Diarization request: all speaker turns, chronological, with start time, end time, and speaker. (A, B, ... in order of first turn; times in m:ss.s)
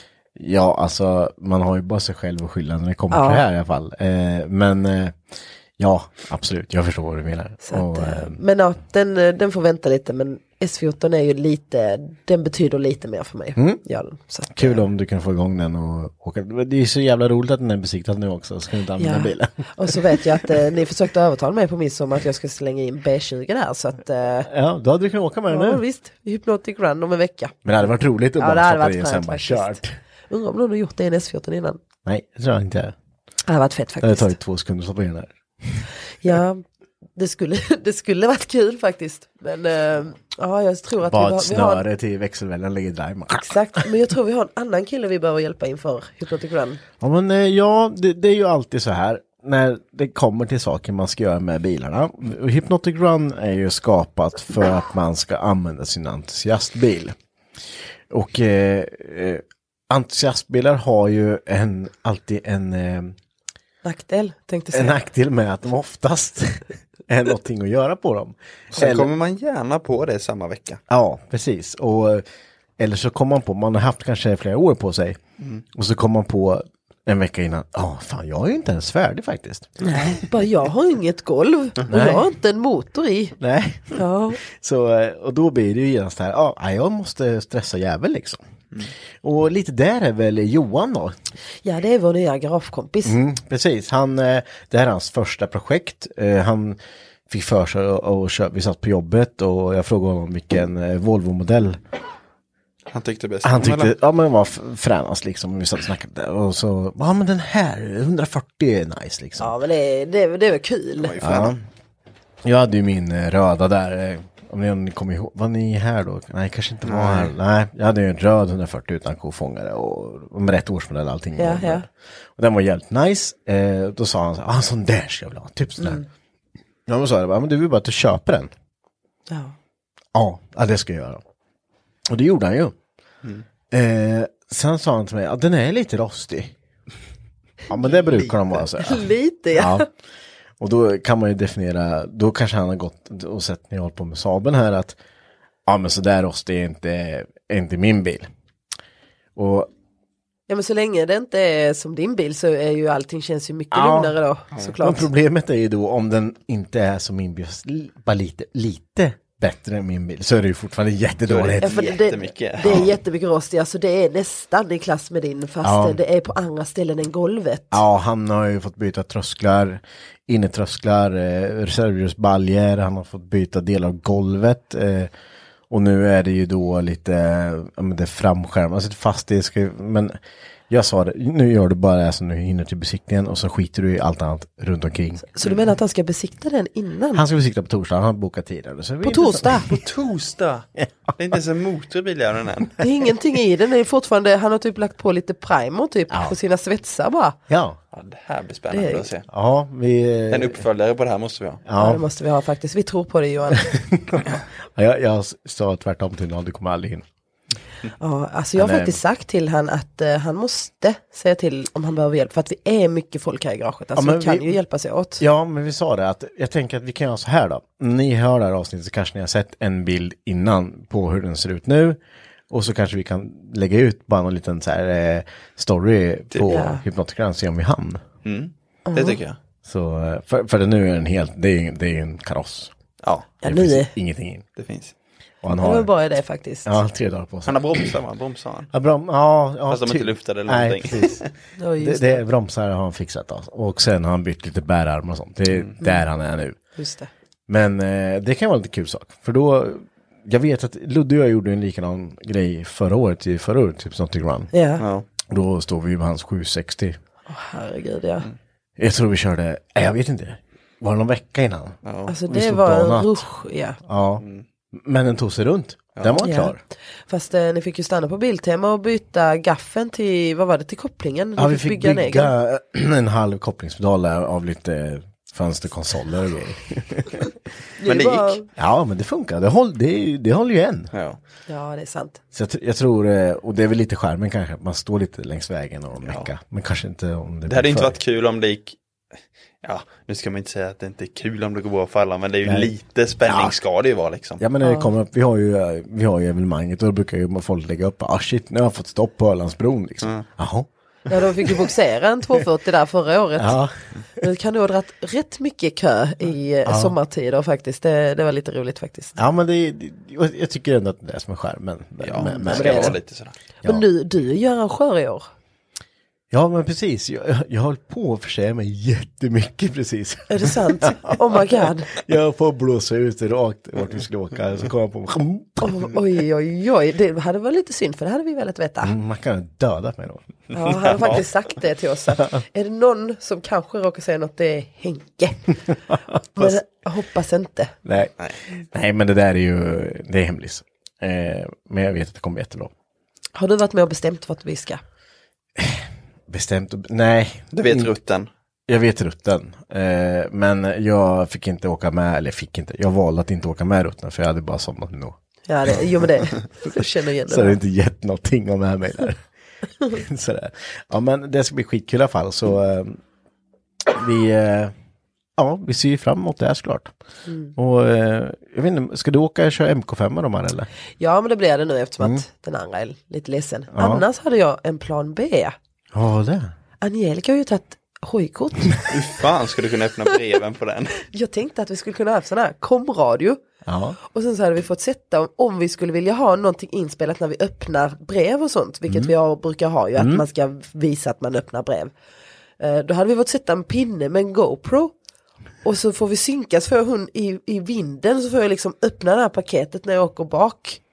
0:00.4-0:08.4 A
0:03.1-0:03.4 B
0:07.6-0:14.8 B
0:13.6-0:13.8 A
0:14.6-0:20.5 A
0:19.0-0:24.5 B
0:24.5-0:25.8 A
0:25.5-0:27.6 B
0:27.6-0:30.0 A
0:28.4-0:31.8 B
0:32.0-0:33.0 A
0:33.5-0:34.4 B
0:34.0-0:35.8 A
0:36.2-0:36.6 B
0:37.2-0:41.8 B
0:41.1-0:43.9 A
0:43.3-0:46.8 B
0:47.0-0:57.2 A
0:58.1-1:03.2 A
1:03.8-1:05.0 B
1:04.7-1:09.1 A
1:08.7-1:10.8 C
1:10.9-1:12.2 A
1:12.8-1:15.2 A
1:15.7-1:19.8 A
1:19.8-1:23.4 B
1:21.9-1:22.3 A
1:23.4-1:28.4 A
1:23.9-1:24.4 B
1:29.2-1:31.2 A
1:31.6-1:33.2 B
1:33.0-1:41.8 A
1:42.9-1:43.9 C
1:43.4-1:49.5 A
1:49.4-1:51.1 B
1:51.0-1:51.6 C
1:51.2-1:51.6 A
1:52.4-2:06.0 A
1:56.8-1:57.3 C
2:01.4-2:01.9 B
2:05.8-2:06.0 B
2:06.9-2:08.5 A
2:09.3-2:09.6 B
2:10.1-2:11.2 A
2:12.1-2:12.8 A
2:13.7-2:16.6 A
2:17.7-2:19.9 A
2:18.0-2:18.5 C
2:18.8-2:19.9 B
2:20.6-2:25.0 A
2:25.7-2:28.3 A
2:29.4-2:29.7 A
2:30.5-2:35.1 B
2:33.7-2:34.2 A
2:34.8-2:41.8 A
2:41.3-2:42.9 C
2:41.6-2:47.8 B
2:42.6-2:42.9 A
2:45.6-2:46.0 A
2:47.7-2:55.1 A
2:55.7-3:00.2 A
3:00.7-3:05.2 A
3:05.3-3:07.2 B
3:07.1-3:09.7 A
3:09.0-3:09.7 B
3:09.6-3:10.7 C
3:11.2-3:12.8 C
3:12.8-3:17.4 B
3:16.1-3:16.4 A
3:17.5-3:17.8 A
3:17.9-3:19.3 C
3:18.7-3:19.1 B
3:19.3-3:20.6 A
3:20.3-3:21.6 C
3:21.7-3:22.0 A
3:21.8-3:23.7 B
3:23.6-3:27.1 A
3:28.0-3:35.2 B
3:28.6-3:29.0 A
3:34.0-3:34.6 A
3:35.2-3:42.0 A
3:42.5-3:48.0 A
3:46.5-3:46.8 B
3:48.2-3:49.4 C
3:48.9-3:49.2 B
3:49.6-3:52.7 A
3:53.0-3:53.3 C
3:53.4-3:53.9 B
3:53.4-3:54.4 A
3:54.6-3:54.9 C
3:55.4-3:55.9 A
3:55.6-3:56.8 B
3:56.6-3:57.9 A
3:57.4-3:58.7 C
3:58.7-4:01.2 A
3:59.7-4:01.3 C
4:01.6-4:02.2 B
4:01.8-4:06.6 A
4:05.8-4:06.1 B
4:06.8-4:07.1 B
4:07.5-4:14.5 A
4:14.5-4:14.8 B
4:14.8-4:15.1 C
4:15.3-4:17.0 A
4:17.3-4:18.3 B
4:18.8-4:23.2 A
4:21.8-4:22.2 C
4:22.1-4:23.8 B
4:23.8-4:26.6 A
4:24.2-4:24.4 C
4:26.2-4:26.6 B
4:27.1-4:32.3 B
4:31.4-4:37.2 A
4:37.8-4:38.5 B
4:37.9-4:38.4 C
4:38.6-4:40.9 A
4:40.9-4:41.2 C
4:41.5-4:42.2 B
4:42.3-4:48.0 A
4:46.0-4:46.3 C
4:47.5-4:48.8 C
4:49.6-4:54.4 C
4:52.4-4:52.7 A
4:53.2-4:53.6 A
4:54.4-5:01.7 A
4:54.6-4:54.9 B
5:01.1-5:03.6 B
5:03.4-5:03.8 A
5:04.2-5:09.2 B
5:06.7-5:07.0 A
5:09.2-5:13.0 A
5:12.0-5:13.4 C
5:12.2-5:13.0 B
5:13.6-5:15.3 B
5:16.3-5:26.0 A
5:20.3-5:21.9 B
5:25.6-5:28.9 B
5:28.8-5:30.2 A
5:30.5-5:35.6 B
5:30.8-5:31.2 C
5:35.9-5:36.6 A
5:36.4-5:37.8 B
5:37.8-5:42.7 A
5:43.4-5:44.8 B
5:45.6-5:47.9 A
5:47.6-5:48.3 C
5:48.7-5:55.2 A
5:55.5-5:57.6 B
5:57.3-5:59.2 A
5:59.9-6:03.0 A
6:03.9-6:04.7 A
6:05.4-6:06.9 A
6:07.3-6:07.5 B
6:07.6-6:10.7 A
6:11.0-6:15.6 B
6:12.0-6:12.2 A
6:13.7-6:14.0 A
6:15.9-6:16.5 A
6:16.8-6:19.0 B
6:18.9-6:21.0 C
6:21.1-6:23.4 B
6:23.6-6:24.0 A
6:24.0-6:31.9 B
6:28.9-6:29.1 A
6:30.0-6:30.2 A
6:32.6-6:34.9 B
6:35.6-6:40.8 B